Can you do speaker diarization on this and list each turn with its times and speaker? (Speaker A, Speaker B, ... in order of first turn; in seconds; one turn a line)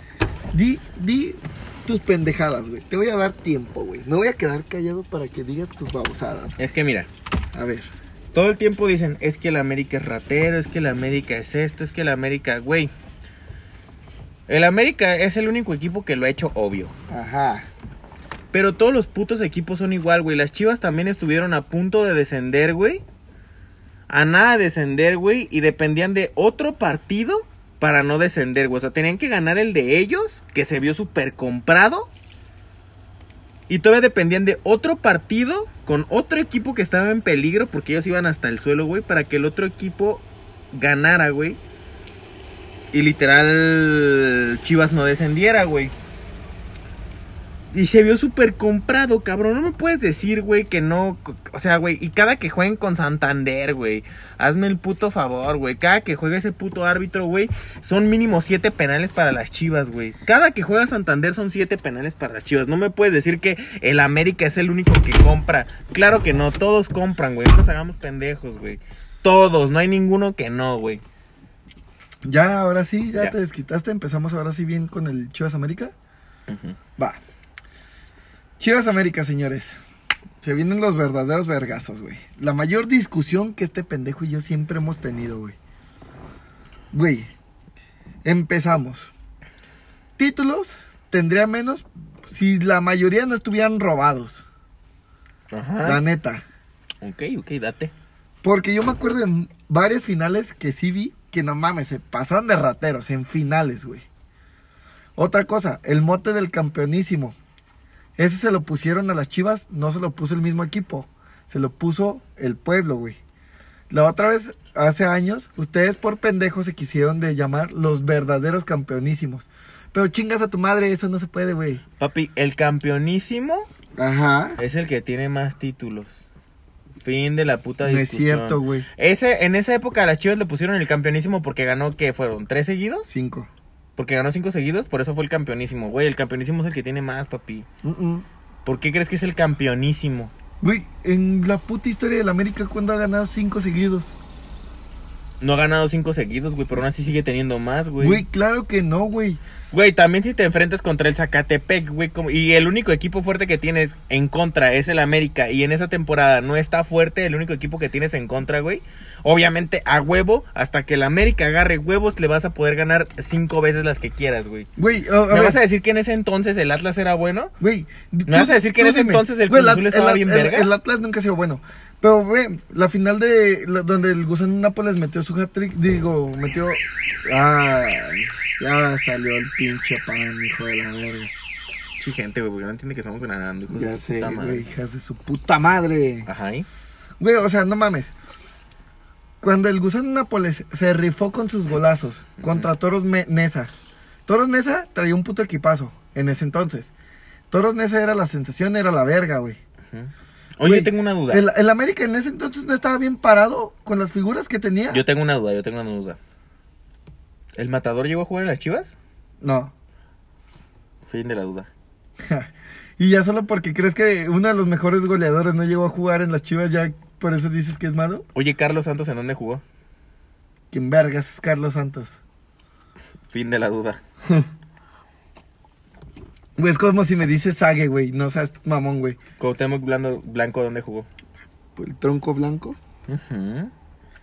Speaker A: 0.5-6.6
Speaker B: 6.6-7.1
Speaker A: 7.5-7.9
Speaker B: 8.3-12.9
Speaker B: 14.5-16.9
Speaker A: 17.1-17.7
Speaker B: 18.5-23.0
Speaker B: 24.1-32.1
Speaker B: 33.7-41.6
Speaker B: 42.9-45.9
Speaker B: 47.7-71.0
Speaker A: 72.2-75.9
Speaker B: 76.5-76.8
Speaker A: 78.6-79.8
Speaker A: 80.4-85.6
Speaker A: 86.9-87.3
Speaker A: 88.2-89.1
Speaker A: 90.2-94.4
Speaker B: 95.5-96.0
Speaker A: 95.8-96.4
Speaker B: 97.0-97.9
Speaker A: 98.4-104.1
Speaker A: 105.2-107.4
Speaker A: 108.2-113.2
Speaker A: 113.9-121.8
Speaker B: 122.0-123.7
Speaker A: 124.0-124.6
Speaker B: 124.6-126.3
Speaker B: 127.0-133.1
Speaker A: 127.8-128.9
Speaker A: 133.1-133.5
Speaker B: 134.0-137.7
Speaker A: 137.8-138.3
Speaker B: 138.7-140.3
Speaker A: 140.6-144.2
Speaker B: 145.4-148.2
Speaker A: 148.0-149.4
Speaker B: 149.7-164.7
Speaker A: 164.8-165.6
Speaker B: 165.3-167.5
Speaker A: 167.6-181.3
Speaker B: 168.3-170.7
Speaker B: 182.0-184.7
Speaker A: 183.7-186.3
Speaker B: 186.3-186.7
Speaker A: 187.2-188.1
Speaker A: 189.4-193.7
Speaker B: 192.4-192.7
Speaker A: 194.3-196.9
Speaker A: 197.5-199.6
Speaker B: 199.9-201.5
Speaker A: 200.6-205.0
Speaker B: 204.9-206.2
Speaker B: 207.6-208.9
Speaker A: 209.4-209.7
Speaker B: 211.1-211.7
Speaker A: 212.2-218.2
Speaker B: 218.3-219.6
Speaker A: 220.7-222.2
Speaker B: 223.3-224.0
Speaker A: 226.6-229.2
Speaker B: 229.4-231.1
Speaker A: 231.8-232.8
Speaker B: 233.1-233.7